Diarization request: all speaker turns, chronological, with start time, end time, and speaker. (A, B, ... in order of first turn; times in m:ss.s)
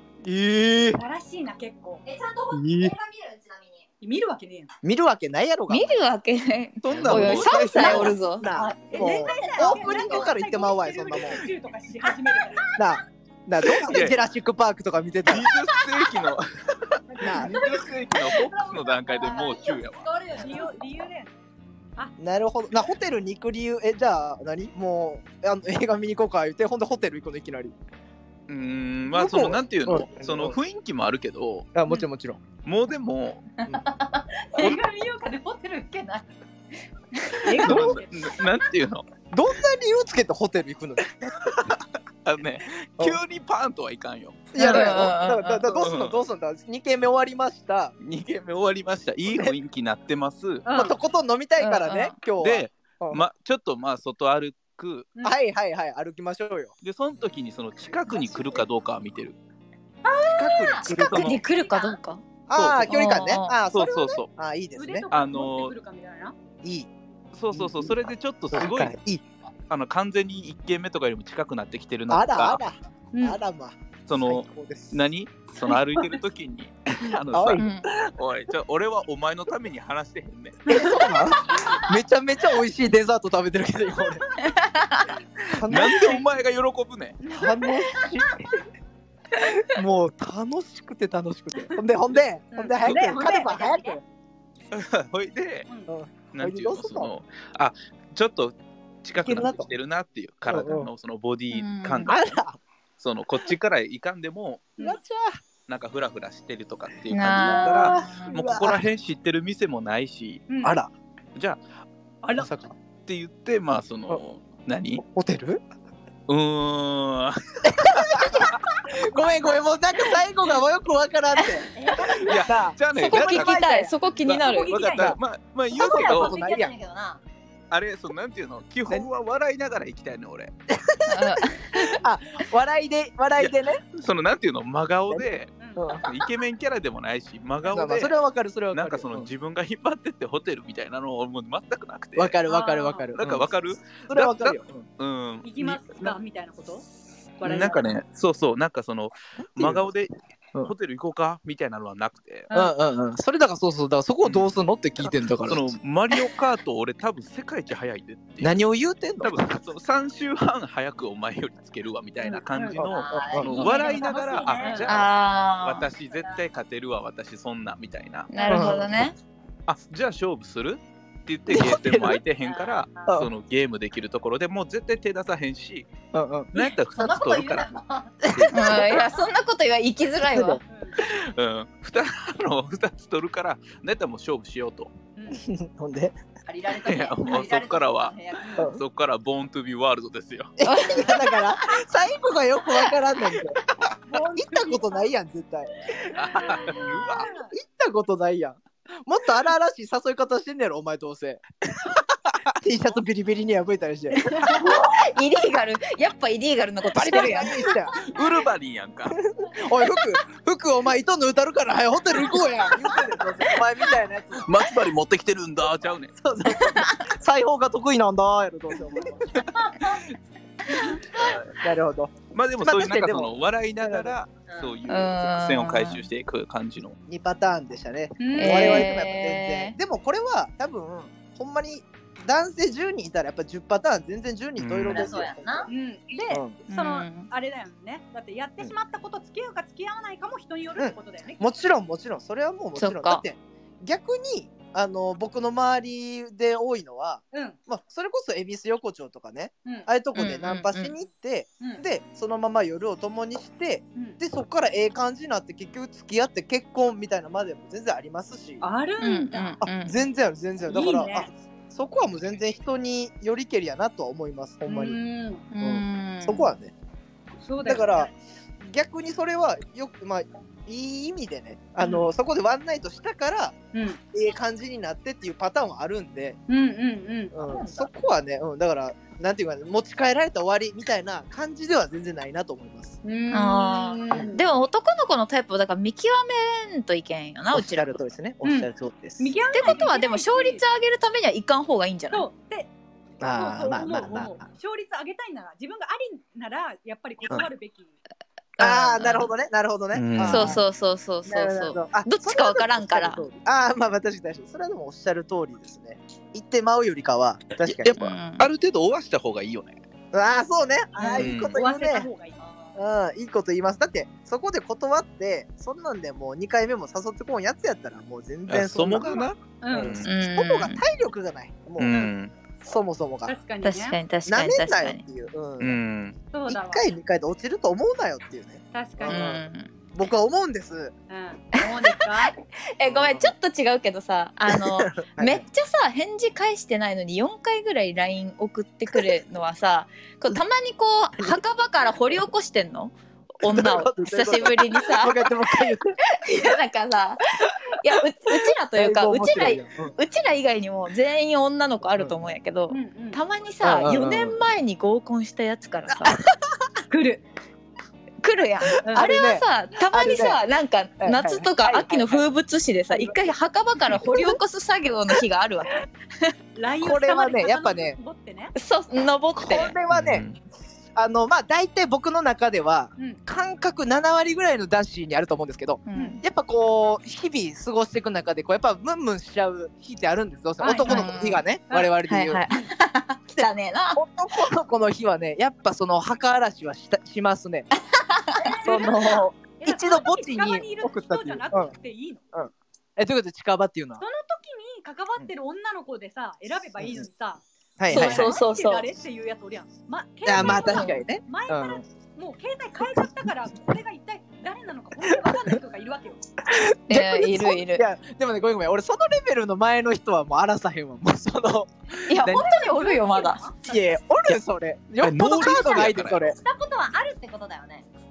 0:00.2-0:01.0 A
0:00.9-0:02.0 B
0:02.0-0:03.9 C
0:02.5-0:03.0 A
0:04.0-0:04.7 B
0:04.8-0:06.0 A
0:05.7-0:08.5 D
0:06.8-0:08.2 E
0:07.0-0:11.4 A
0:07.8-0:10.3 C
0:08.9-0:12.7 B
0:12.8-0:15.5 A
0:13.8-0:14.2 E
0:15.2-0:20.1 E
0:17.2-0:17.6 A
0:17.3-0:20.8 C
0:20.4-0:21.3 B
0:22.2-0:27.7 A
0:28.5-0:31.7 E
0:29.1-0:30.6 A
0:31.7-0:32.4 A
0:32.6-0:33.6 E
0:33.7-0:36.2 C
0:34.6-0:34.8 E
0:37.4-0:38.4 B
0:37.5-0:39.0 E
0:37.6-0:37.9 A
0:39.3-0:41.6 A
0:41.5-0:45.0 E
0:44.5-0:47.9 A
0:44.6-0:45.7 D
0:45.7-0:46.2 E
0:48.0-0:50.6 E
0:49.3-0:49.5 A
0:50.6-0:51.0 B
0:50.7-0:53.2 A
0:51.6-0:52.2 D
0:52.4-0:55.1 E
0:55.2-0:56.7 A
0:56.8-0:59.4 E
1:00.0-1:00.9 B
1:00.4-1:01.4 A
1:00.4-1:01.9 C
1:00.9-1:02.2 D
1:01.1-1:01.4 E
1:02.5-1:05.1 A
1:02.5-1:02.9 E
1:02.8-1:03.6 D
1:03.7-1:04.3 E
1:04.8-1:06.4 B
1:05.1-1:05.7 E
1:06.6-1:06.9 A
1:07.3-1:09.0 E
1:07.5-1:09.2 A
1:09.7-1:12.6 E
1:12.1-1:15.0 A
1:13.1-1:13.4 B
1:14.1-1:20.7 E
1:15.6-1:16.0 B
1:17.3-1:17.8 A
1:17.6-1:17.9 D
1:20.7-1:21.8 B
1:20.7-1:24.2 A
1:24.4-1:25.1 D
1:25.5-1:26.2 A
1:25.7-1:27.2 E
1:25.8-1:26.2 B
1:27.2-1:28.1 B
1:27.3-1:28.6 A
1:29.4-1:34.0 A
1:32.5-1:33.9 B
1:32.8-1:33.9 C
1:34.7-1:35.7 E
1:35.7-1:35.9 B
1:35.9-1:37.1 A
1:36.3-1:42.2 E
1:39.2-1:39.6 A
1:40.5-1:40.9 A
1:41.5-1:42.2 D
1:42.1-1:42.6 A
1:43.0-1:44.7 E
1:44.8-1:45.4 A
1:45.7-1:50.5 E
1:47.1-1:48.3 D
1:47.3-1:48.8 A
1:50.5-1:50.8 B
1:50.6-1:50.9 A
1:51.3-1:51.6 E
1:52.2-1:52.5 B
1:52.4-1:52.7 A
1:53.0-1:55.0 E
1:55.0-1:55.6 A
1:56.3-1:58.4 E
1:57.6-2:04.4 A
2:01.7-2:02.4 C
2:02.0-2:03.7 E
2:03.0-2:05.0 D
2:04.2-2:06.4 E
2:04.4-2:05.1 C
2:04.9-2:05.2 A
2:05.7-2:07.2 C
2:05.8-2:06.7 A
2:07.7-2:10.5 E
2:10.7-2:13.8 A
2:11.1-2:11.9 D
2:13.4-2:18.1 E
2:15.1-2:16.0 A
2:15.6-2:16.1 B
2:17.6-2:18.1 B
2:17.7-2:19.3 A
2:18.7-2:22.4 E
2:22.2-2:24.8 A
2:22.5-2:23.1 B
2:23.2-2:26.1 E
2:25.4-2:26.8 B
2:27.4-2:27.9 B
2:27.4-2:32.5 E
2:29.6-2:29.8 A
2:32.5-2:32.7 B
2:32.5-2:35.7 A
2:34.2-2:34.5 E
2:35.0-2:38.6 E
2:38.4-2:39.3 A
2:39.2-2:48.6 E
2:42.5-2:42.8 B
2:42.8-2:43.7 A
2:42.8-2:45.1 C
2:43.5-2:44.9 B
2:44.9-2:45.9 D
2:46.1-2:46.4 C
2:48.3-2:49.1 D
2:48.4-2:48.8 B
2:48.5-2:48.9 A
2:49.6-2:55.9 E
2:51.5-2:52.2 A
2:52.4-2:52.8 C
2:56.1-2:56.5 A
2:56.5-2:57.7 E
2:56.6-2:59.0 C
2:58.3-2:59.0 A
2:58.5-3:00.6 D
3:00.2-3:00.6 A
3:00.7-3:01.0 B
3:01.0-3:04.9 E
3:05.2-3:05.4 B
3:05.3-3:06.2 A
3:06.4-3:08.7 C
3:06.7-3:10.5 E
3:10.6-3:13.6 A
3:10.6-3:11.5 D
3:14.1-3:15.0 B
3:14.1-3:15.9 A
3:16.1-3:17.3 E
3:16.1-3:17.5 B
3:17.5-3:21.4 A
3:22.5-3:24.7 A
3:24.3-3:27.7 D
3:26.9-3:28.0 A
3:27.9-3:29.2 E
3:29.3-3:34.5 A
3:34.4-3:36.1 E
3:36.2-3:39.2 A
3:36.7-3:37.0 D
3:41.1-3:41.6 E
3:41.6-3:44.2 A
3:42.3-3:47.0 E
3:44.9-3:46.0 D
3:47.1-3:55.7 A
3:48.2-3:48.9 B
3:48.3-3:49.8 D
3:54.6-3:55.2 E
3:54.9-3:55.7 C
3:55.7-4:01.4 B
3:56.3-3:56.6 A
3:56.7-3:57.3 D
4:00.8-4:18.6 A
4:02.8-4:03.2 D
4:07.3-4:07.6 B
4:10.1-4:10.9 D
4:18.6-4:19.6 B
4:19.0-4:20.0 D
4:19.6-4:25.0 A
4:20.6-4:21.3 B
4:24.6-4:25.4 B
4:25.5-4:26.5 D
4:25.6-4:26.7 A
4:27.4-4:28.1 B
4:27.6-4:28.1 A
4:28.6-4:33.6 A
4:31.8-4:32.1 B
4:33.7-4:34.0 B
4:34.1-4:36.4 A
4:36.5-4:37.9 B
4:37.3-4:43.0 A
4:43.0-4:44.4 B
4:43.3-4:47.9 D
4:47.5-4:49.3 A
4:48.4-4:50.6 B
4:49.5-4:52.3 D
4:52.1-4:52.7 B
4:53.2-4:54.4 A
4:53.3-4:58.0 B
4:58.6-4:59.3 D
4:58.6-5:00.6 A
4:59.9-5:00.6 E
5:00.2-5:03.3 D
5:01.2-5:07.9 A
5:07.6-5:09.8 E
5:08.0-5:08.5 D
5:10.1-5:12.1 A
5:10.9-5:12.4 B
5:11.1-5:11.6 E
5:12.4-5:12.8 C
5:12.7-5:23.3 A
5:18.5-5:20.1 E
5:19.6-5:20.0 B
5:20.0-5:20.8 D
5:21.8-5:22.3 E
5:23.3-5:24.0 B
5:23.6-5:25.0 D
5:24.2-5:25.8 A
5:25.6-5:26.2 E
5:26.3-5:26.9 B
5:26.5-5:29.4 A
5:28.7-5:29.4 B
5:29.0-5:29.7 D
5:29.9-5:30.9 A
5:31.1-5:32.3 B
5:31.6-5:45.3 D
5:32.8-5:33.3 A
5:34.5-5:35.4 A
5:43.5-5:46.0 A
5:46.2-5:56.2 D
5:48.8-5:49.9 A
5:52.0-5:52.3 A
5:52.7-5:53.2 B
5:53.6-5:54.4 A
5:56.0-5:56.3 A
5:56.9-5:57.2 B
5:58.2-6:06.3 D
5:58.8-5:59.1 B
5:58.9-6:00.4 A
6:01.0-6:02.2 A
6:02.9-6:03.2 A
6:03.9-6:04.4 A
6:06.5-6:08.5 B
6:06.8-6:08.0 A
6:08.5-6:09.8 D
6:09.3-6:10.3 A
6:09.9-6:10.4 E
6:10.9-6:22.4 A
6:15.8-6:16.2 D
6:15.9-6:16.2 B
6:20.6-6:21.9 B
6:20.8-6:21.4 D
6:22.0-6:24.0 D
6:23.3-6:27.7 A
6:27.8-6:28.6 D
6:28.3-6:32.3 B
6:28.6-6:31.7 A
6:32.3-6:34.0 A
6:34.0-6:46.3 B
6:36.8-6:37.0 A
6:37.8-6:38.3 A
6:37.9-6:38.9 D
6:40.2-6:41.8 A
6:40.4-6:41.0 D
6:46.4-6:52.5 A
6:46.9-6:47.8 D
6:52.1-6:53.4 D
6:52.2-6:54.0 B
6:53.6-6:56.4 A
6:55.0-6:56.3 E
6:56.2-6:57.8 C